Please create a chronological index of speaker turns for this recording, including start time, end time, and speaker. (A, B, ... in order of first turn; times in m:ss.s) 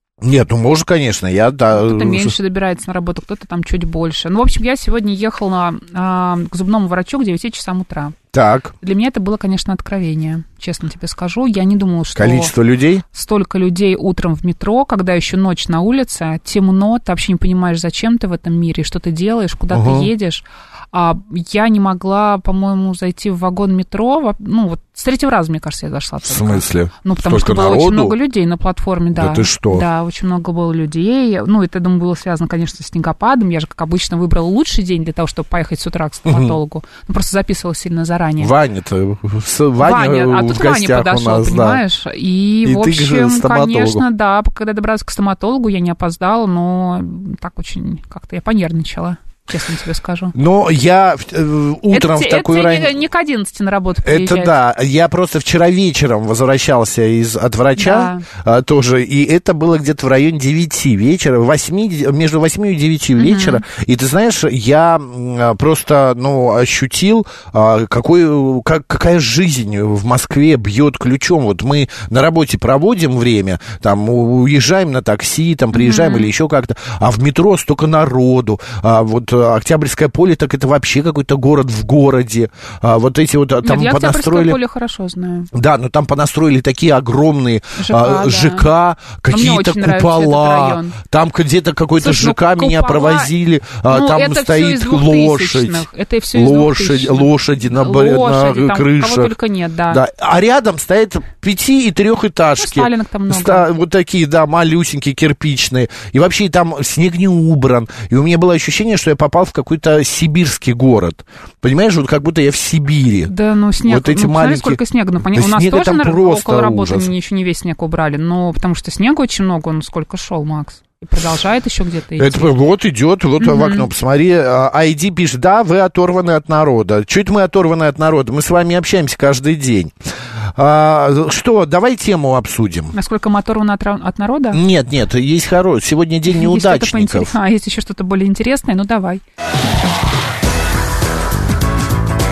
0:00.2-0:02.4 A
0:01.7-0:08.2 B
0:08.3-0:08.7 A
0:08.8-0:12.5 B
0:12.2-0:13.0 A
0:13.1-0:38.5 B
0:19.7-0:20.1 A
0:26.2-0:28.2 A
0:29.2-0:29.9 A
0:36.3-0:36.6 A
0:38.4-0:41.8 A
0:39.8-0:50.3 B
0:42.6-0:44.0 A
0:50.4-0:52.9 A
0:51.9-0:54.6 B
0:54.0-1:24.6 A
0:57.8-0:58.3 B
1:03.2-1:03.6 B
1:15.7-1:16.3 B
1:23.6-1:25.5 B
1:25.5-1:39.3 A
1:27.8-1:28.7 B
1:29.3-1:31.0 B
1:32.0-1:33.3 B
1:33.9-1:40.0 B
1:39.9-1:53.3 A
1:42.6-1:43.7 B
1:53.3-2:02.5 B
1:53.8-1:57.1 A
2:02.2-2:09.9 A
2:03.4-2:03.9 B
2:10.6-2:12.9 A
2:12.9-2:14.6 B
2:14.5-2:17.3 A
2:16.3-2:19.2 B